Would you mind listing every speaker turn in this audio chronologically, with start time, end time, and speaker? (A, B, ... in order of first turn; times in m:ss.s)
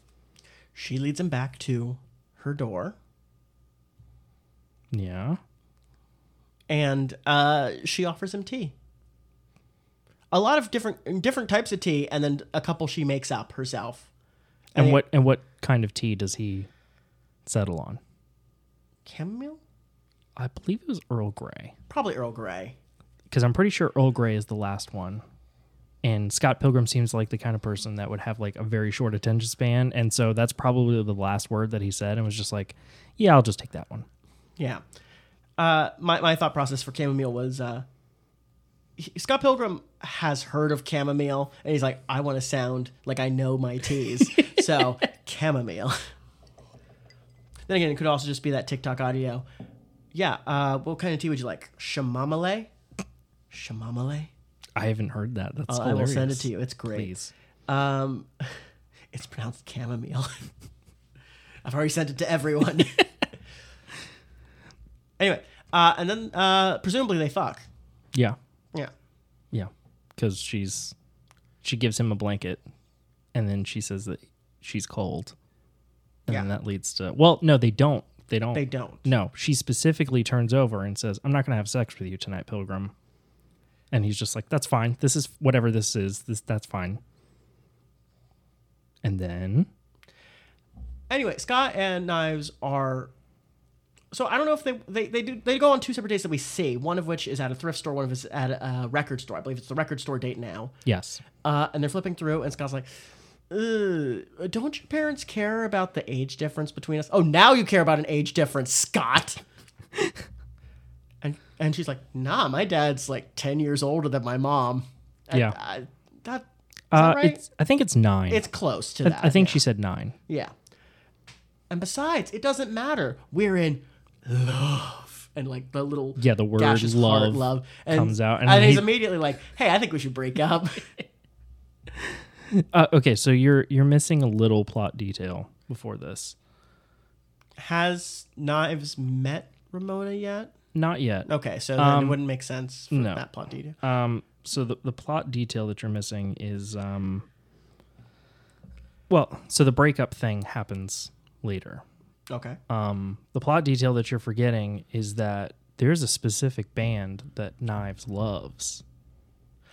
0:00.7-0:03.0 A
0:04.9-0:05.4 B
0:06.7-0:08.7 A
0:10.3-0:14.1 A
0:14.7-0:15.0 A
0:14.7-0:16.7 B
0:17.4-0:18.0 B
0:19.0-0:19.6 A
0:20.4-0:21.7 B
0:21.9-0:22.8 A
0:23.3-0:25.2 B
0:26.0-0:34.1 B
0:35.6-0:37.8 A
0:39.0-0:46.0 A
0:44.3-0:44.8 B
0:47.7-0:49.4 A
0:50.1-0:52.7 A
0:53.5-0:54.3 A
0:54.8-0:57.3 B
0:55.7-0:57.1 A
0:57.7-0:58.5 A
0:59.1-1:00.5 A
1:01.6-1:03.1 A
1:05.2-1:07.6 A
1:09.5-1:10.9 B
1:11.6-1:12.6 B
1:13.3-1:15.3 B
1:16.3-1:22.9 B
1:18.5-1:19.1 A
1:23.9-1:27.0 B
1:29.0-1:29.7 B
1:31.1-1:33.1 A
1:34.1-1:40.7 A
1:40.8-1:41.2 B
1:41.4-1:42.9 A
1:43.5-1:49.4 A
1:51.2-1:57.4 A
1:56.9-1:58.4 B
1:58.3-1:59.6 A
1:59.0-2:00.1 B
2:00.3-2:00.5 A
2:01.7-2:11.0 A
2:06.2-2:08.9 B
2:12.5-2:16.4 B
2:17.6-2:20.5 A
2:20.7-2:22.2 B
2:21.2-2:23.8 A
2:22.9-2:23.2 B
2:23.8-2:27.2 B
2:29.1-2:31.8 B
2:32.3-2:32.6 A
2:32.7-2:38.8 B